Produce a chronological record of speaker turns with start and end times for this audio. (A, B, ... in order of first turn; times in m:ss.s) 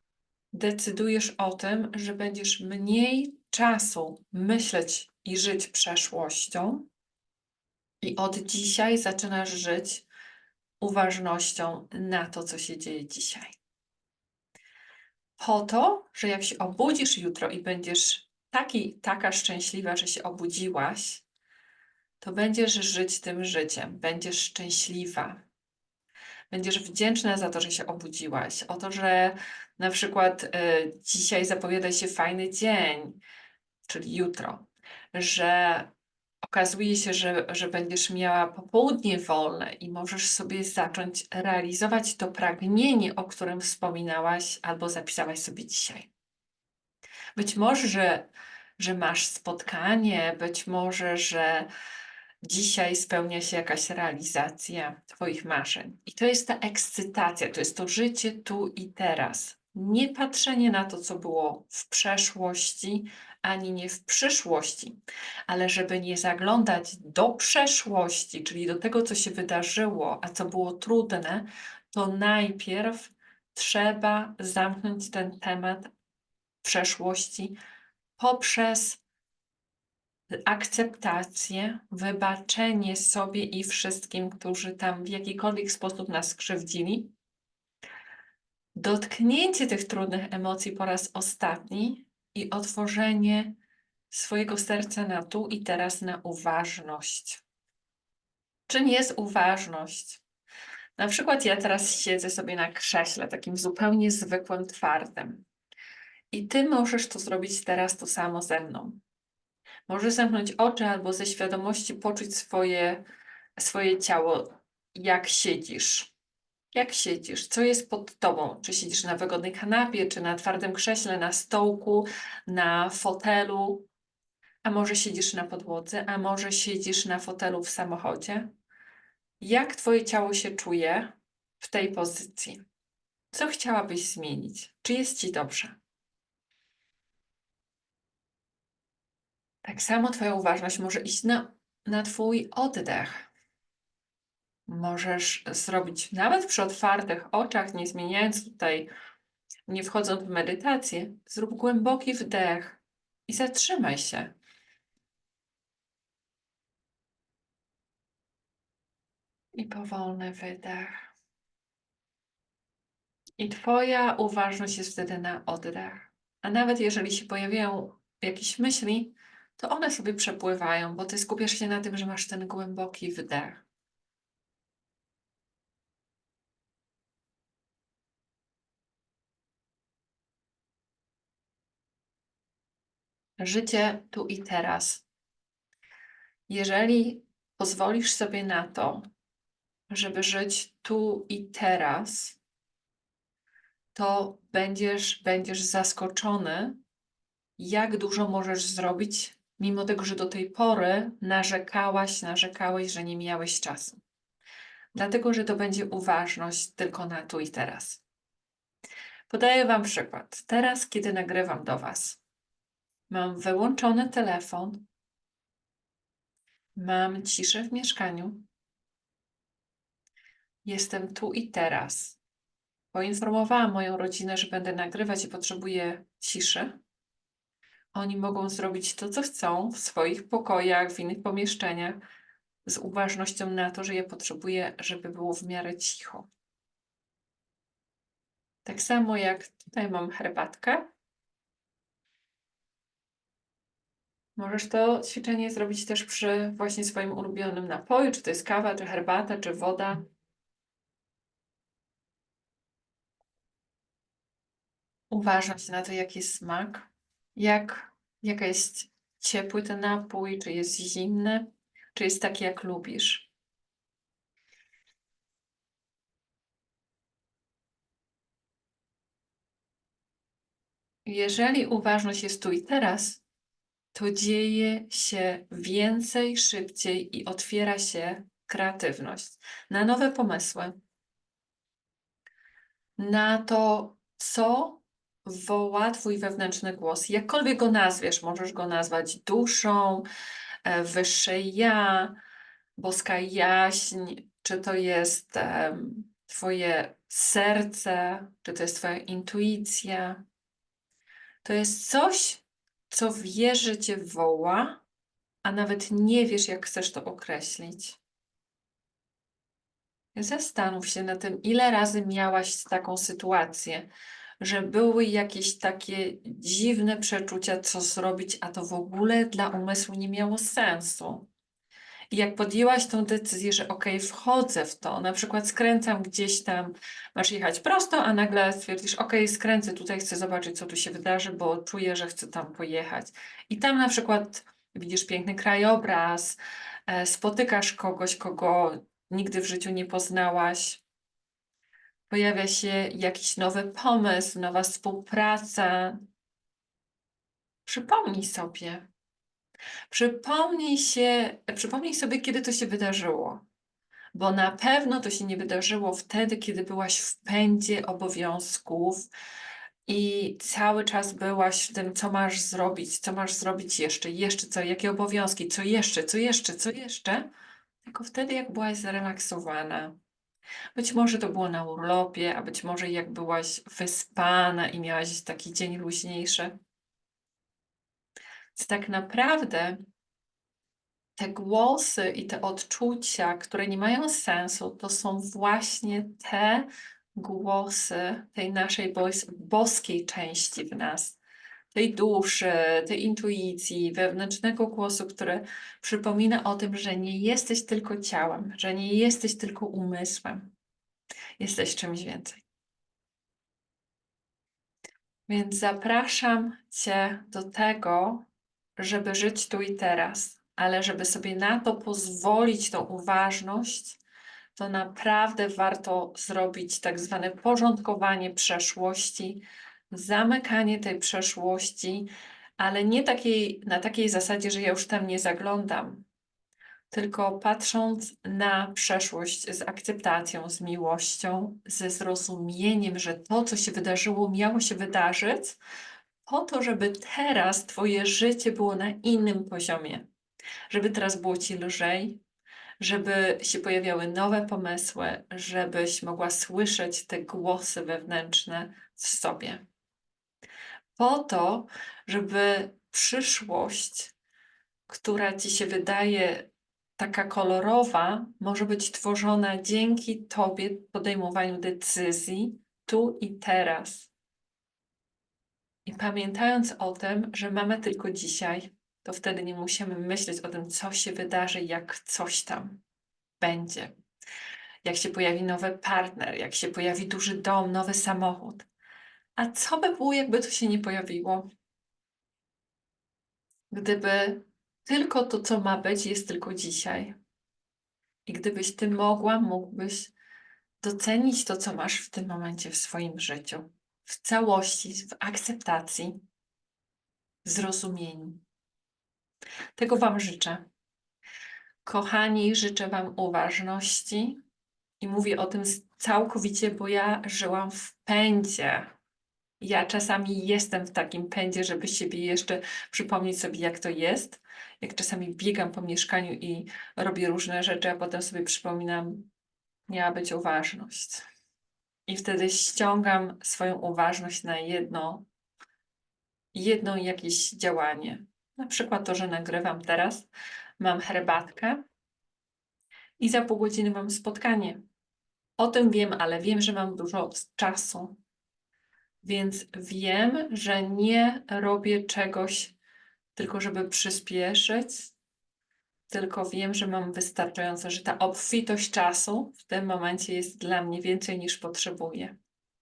0:00.5-0:06.9 A
0:08.0-0:10.0 A
0:10.8-0:13.5 A
0:15.4-0:21.2 A
0:22.2-0:25.4 A
0:26.5-0:33.2 A
0:33.8-0:35.9 A
0:36.4-0:46.1 A
0:47.4-0:48.3 A
0:48.8-0:51.7 A
0:52.4-1:15.9 A
1:16.6-1:17.6 A
1:18.2-1:19.0 A
1:20.4-1:27.1 A
1:28.8-1:33.5 A
1:34.1-1:37.4 A
1:38.7-1:40.2 A
1:41.0-1:45.4 A
1:46.3-1:49.0 A
1:49.9-1:53.0 A
1:53.6-1:56.1 A
1:56.7-2:03.9 A
2:04.6-2:08.5 A
2:09.4-2:12.6 A
2:13.3-2:15.8 A
2:19.6-2:23.3 A
2:24.7-2:28.9 A
2:29.7-2:34.3 A
2:39.6-2:41.1 A
2:43.4-2:53.6 A
3:03.4-3:05.0 A
3:06.5-3:09.0 A
3:09.9-3:12.4 A
3:13.9-3:16.8 A
3:17.6-3:24.0 A
3:24.9-3:28.0 A
3:29.3-3:32.2 A
3:33.1-3:34.8 A
3:36.7-3:38.5 A
3:40.6-3:42.2 A
3:42.9-3:46.8 A
3:47.9-3:52.0 A
3:52.6-3:56.3 A
3:58.6-4:00.9 A
4:04.4-4:10.0 A
4:15.1-4:23.3 A
4:31.0-4:33.2 A
4:33.9-4:40.7 A
4:43.0-4:50.0 A
4:50.6-4:52.2 A
4:52.8-5:00.2 A
5:01.4-5:04.8 A
5:05.4-5:08.0 A
5:10.1-5:13.9 A
5:14.4-5:21.3 A
5:22.1-5:40.8 A
5:42.1-5:46.0 A
5:47.6-5:48.9 A
5:49.9-5:53.4 A
5:54.1-5:59.1 A
5:59.9-6:07.3 A
6:07.8-6:10.0 A
6:10.7-6:16.6 A
6:18.5-6:19.8 A
6:21.2-6:31.2 A
6:31.7-6:40.5 A
6:41.4-6:42.4 A
6:45.3-6:48.2 A
6:48.8-6:54.0 A
6:54.5-7:06.0 A
7:06.9-7:15.6 A
7:16.2-7:20.1 A
7:20.7-7:22.2 A
7:22.8-7:29.6 A
7:31.0-7:34.1 A
7:34.9-7:44.1 A
7:45.8-7:52.8 A
7:53.4-7:53.9 A
7:54.8-7:58.6 A
7:59.4-8:01.5 A
8:03.7-8:07.1 A
8:08.2-8:10.1 A
8:10.8-8:16.2 A
8:17.4-8:18.4 A
8:19.8-8:20.6 A
8:21.8-8:24.4 A
8:25.0-8:28.9 A
8:29.6-8:39.3 A
8:39.9-8:41.2 A
8:42.1-8:45.2 A
8:46.5-8:51.8 A
8:53.2-8:54.8 A
8:55.6-8:58.2 A
8:59.2-9:02.8 A
9:03.3-9:05.1 A
9:06.1-9:12.4 A